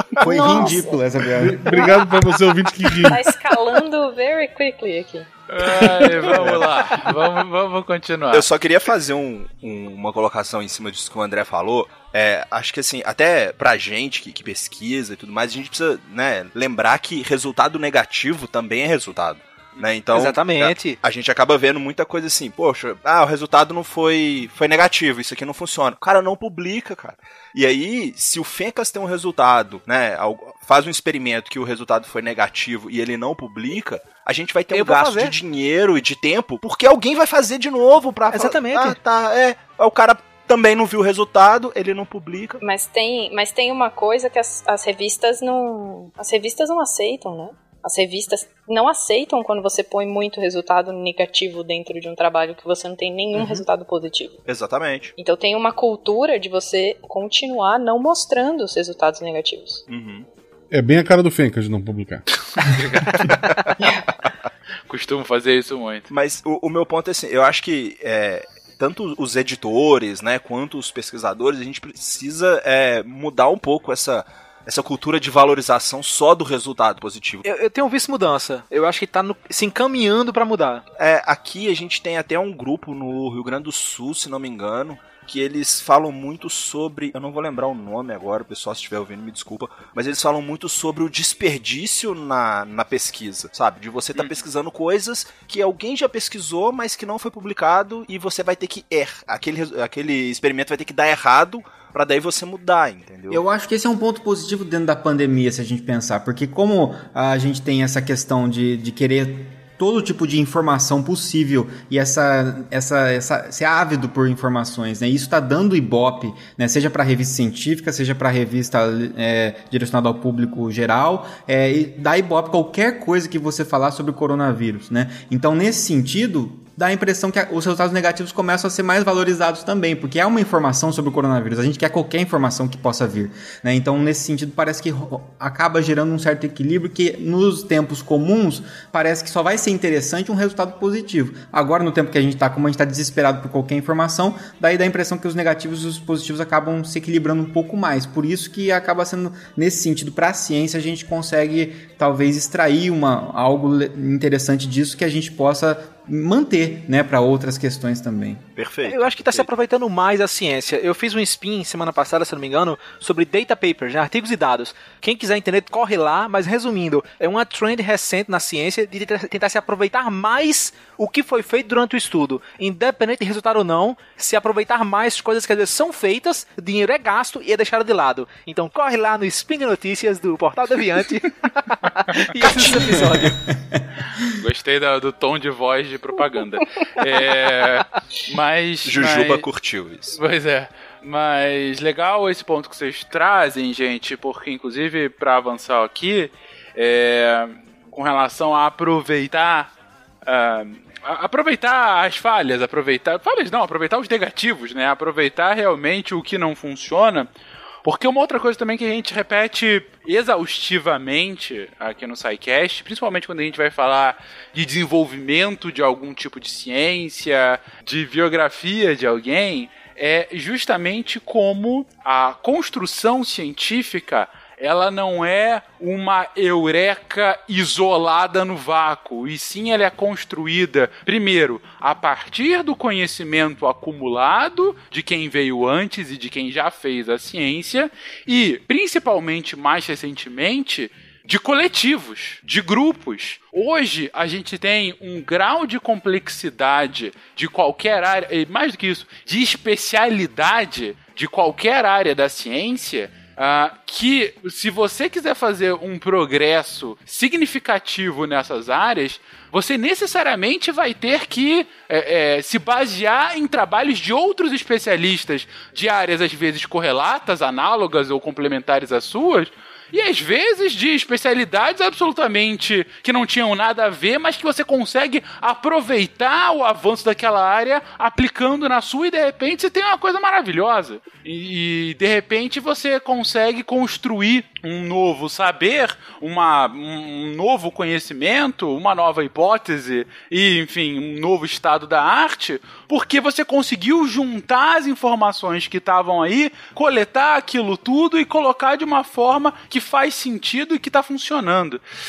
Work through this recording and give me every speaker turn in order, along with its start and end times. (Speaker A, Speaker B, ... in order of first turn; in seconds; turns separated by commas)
Speaker A: 0.2-1.0, Speaker B: 0.2-1.7, Speaker C: 0.4-0.8, Speaker C: 1.4-3.2, Speaker A: 1.7-2.0, Speaker A: 3.0-5.3, Speaker D: 5.5-8.4, Speaker E: 8.3-42.6, Speaker F: 20.1-21.0, Speaker F: 34.7-35.4, Speaker F: 38.3-39.0, Speaker A: 42.6-54.4, Speaker E: 54.5-55.1, Speaker A: 55.1-59.8, Speaker E: 59.9-60.2, Speaker C: 60.7-62.2, Speaker D: 62.6-63.3, Speaker D: 64.9-66.1, Speaker E: 66.1-77.5, Speaker F: 77.4-80.8, Speaker E: 81.0-103.4, Speaker B: 103.3-158.4, Speaker E: 158.6-159.5, Speaker F: 158.8-183.4, Speaker B: 183.7-184.2, Speaker D: 184.3-189.4, Speaker E: 188.8-190.2, Speaker D: 190.1-199.7, Speaker D: 200.2-207.3, Speaker D: 207.8-301.8